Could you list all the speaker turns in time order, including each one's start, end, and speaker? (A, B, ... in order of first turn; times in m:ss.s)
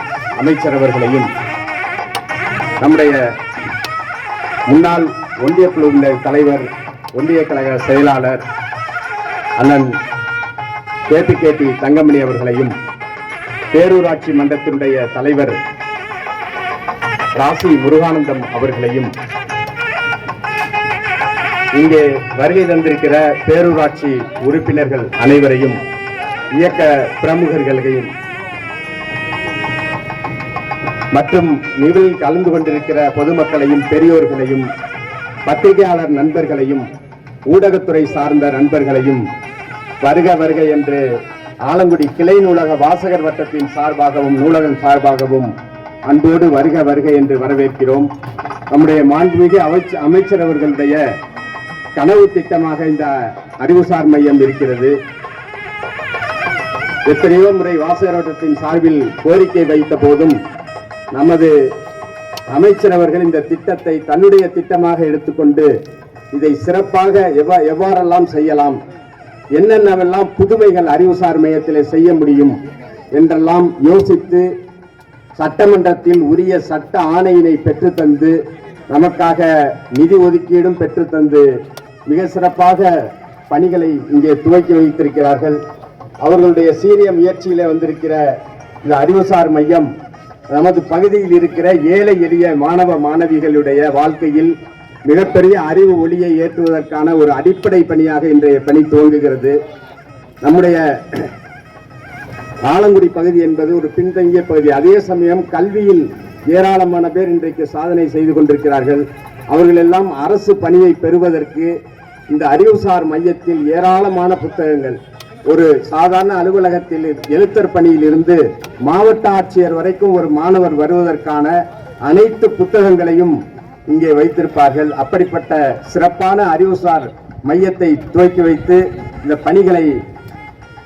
0:00.4-0:01.3 A
0:02.8-0:03.2 A
0:04.7-0:08.4 A
0:09.6-0:09.9 A
0:11.1-0:12.7 A
0:13.7-0:15.6 A
0:17.4-0:19.1 A
0:21.8-0:25.8 A
0:26.6-0:28.1 A
0:31.2-0:34.7 A
0:35.5-0:36.8 A
0:37.5-0:39.2 A
0:40.0-0:41.0 A
0:41.6-0:45.5 A
0:46.1-0:48.1 A
0:48.7-0:51.0 A
0:52.0-0:55.0 A
0:57.1-1:00.4 A
1:01.1-1:01.5 A
1:02.5-1:05.7 A
1:06.3-1:08.8 A
1:09.6-1:12.6 A
1:13.2-1:14.5 A
1:15.4-1:18.4 A
1:18.9-1:21.5 A
1:22.1-1:22.9 A
1:23.5-1:25.6 A
1:26.2-1:28.2 A
1:28.8-1:29.9 A
1:30.5-1:34.5 A
1:35.1-1:39.6 A
1:40.4-1:41.2 A
1:42.7-1:51.7 A
1:52.3-2:01.5 A
2:02.1-2:03.4 A
2:03.9-2:09.9 A